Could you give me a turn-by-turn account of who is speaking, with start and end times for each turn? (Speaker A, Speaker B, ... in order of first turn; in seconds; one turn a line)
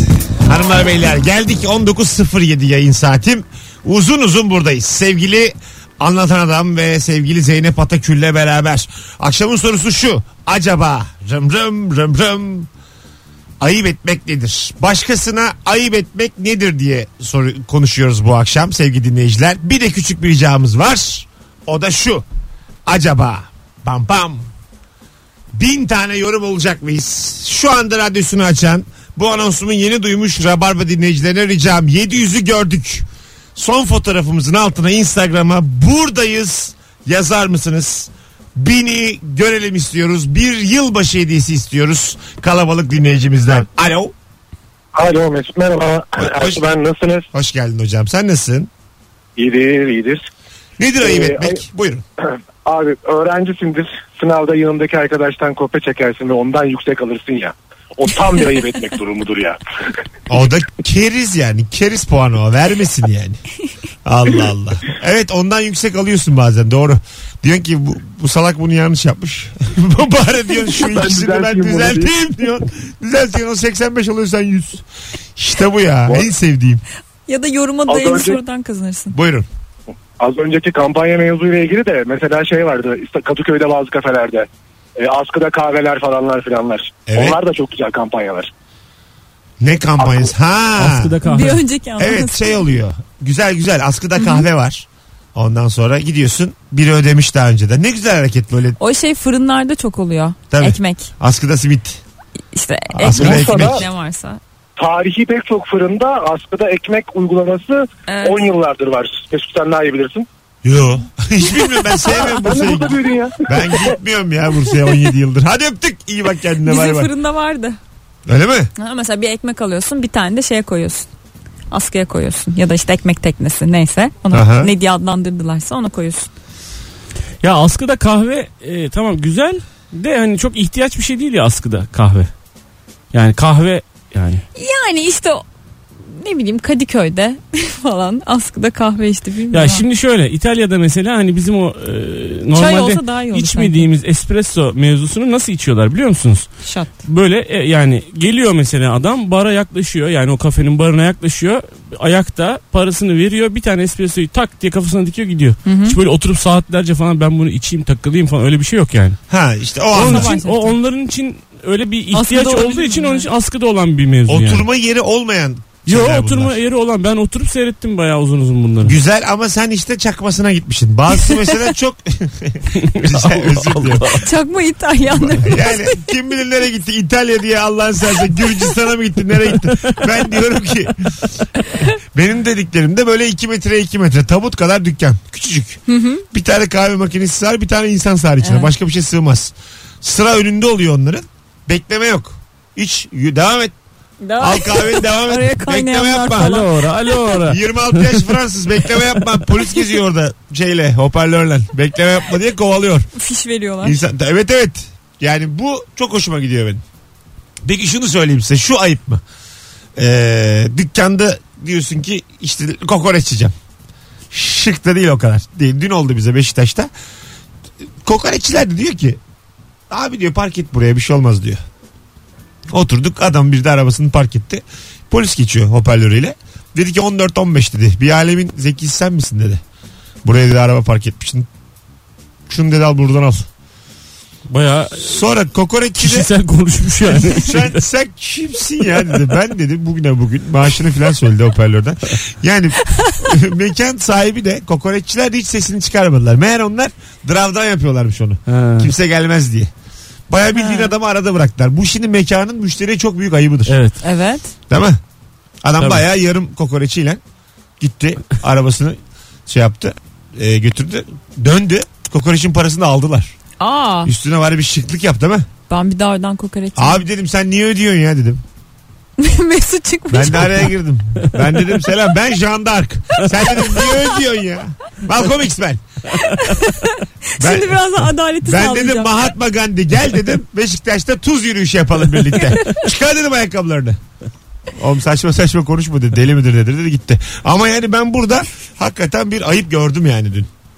Speaker A: 0.5-12.7
Speaker A: 13.6-22.2
Speaker A: 22.9-24.4
Speaker A: 25.5-44.1
Speaker B: 44.9-47.2
Speaker A: 46.2-46.6
Speaker A: 47.3-48.7
Speaker B: 49.4-50.2
Speaker A: 50.8-52.0
Speaker B: 51.0-51.6
Speaker B: 52.6-59.6
Speaker A: 60.3-63.4
Speaker A: 64.0-74.8
Speaker B: 70.8-72.1
Speaker A: 75.3-76.8
Speaker C: 77.3-79.2
Speaker B: 77.9-78.4
Speaker A: 79.1-79.5
Speaker B: 80.2-88.5
Speaker A: 87.1-87.4
Speaker A: 89.6-91.1
Speaker B: 90.0-90.3
Speaker D: 90.8-91.6
Speaker C: 91.2-92.7
Speaker A: 92.0-98.8
Speaker C: 94.2-94.4
Speaker C: 98.8-101.1
Speaker A: 100.5-102.0
Speaker C: 102.5-104.4
Speaker A: 102.9-103.8
Speaker B: 103.0-103.8
Speaker B: 104.8-110.2
Speaker C: 108.1-108.5
Speaker A: 110.6-117.1
Speaker B: 112.2-114.0
Speaker C: 116.6-117.8
Speaker A: 118.3-118.7
Speaker C: 118.8-121.1
Speaker C: 121.7-126.3
Speaker A: 124.3-124.7
Speaker D: 127.4-132.3
Speaker D: 133.1-134.4
Speaker C: 134.5-135.4
Speaker C: 136.1-139.8
Speaker D: 139.5-146.5
Speaker C: 142.6-143.9
Speaker C: 146.6-147.0
Speaker D: 147.0-159.2
Speaker C: 155.6-155.9
Speaker A: 159.3-160.4
Speaker D: 159.9-164.6
Speaker C: 160.0-160.8
Speaker C: 162.1-163.3
Speaker A: 164.3-166.6
Speaker D: 165.8-169.0
Speaker A: 168.8-174.2
Speaker D: 172.7-174.2
Speaker C: 174.2-176.1
Speaker A: 175.1-181.3
Speaker A: 181.8-193.7
Speaker C: 185.9-186.2
Speaker C: 188.4-188.7
Speaker C: 194.2-197.3
Speaker A: 194.4-196.6
Speaker D: 196.4-198.3
Speaker A: 197.4-203.1
Speaker C: 203.1-204.0
Speaker A: 203.8-206.8
Speaker A: 207.6-209.2
Speaker A: 210.0-213.5
Speaker A: 214.3-216.9
Speaker A: 218.0-219.2
Speaker A: 219.9-221.6
Speaker A: 222.7-229.6
Speaker A: 230.2-231.5
Speaker A: 232.5-233.5
Speaker D: 234.5-235.2
Speaker A: 235.0-236.3
Speaker D: 236.0-237.8
Speaker A: 237.2-249.7
Speaker D: 248.5-248.9
Speaker A: 250.3-253.8
Speaker C: 250.6-250.9
Speaker D: 253.7-254.0
Speaker C: 254.0-254.5
Speaker A: 254.7-255.0
Speaker A: 255.6-257.2
Speaker A: 257.8-263.3
Speaker C: 263.6-264.1
Speaker A: 264.0-265.5
Speaker C: 265.7-267.0
Speaker A: 266.8-268.4
Speaker C: 269.2-270.7
Speaker A: 270.1-275.8
Speaker C: 276.2-279.1
Speaker A: 277.4-284.0
Speaker C: 282.4-282.8
Speaker A: 284.8-290.5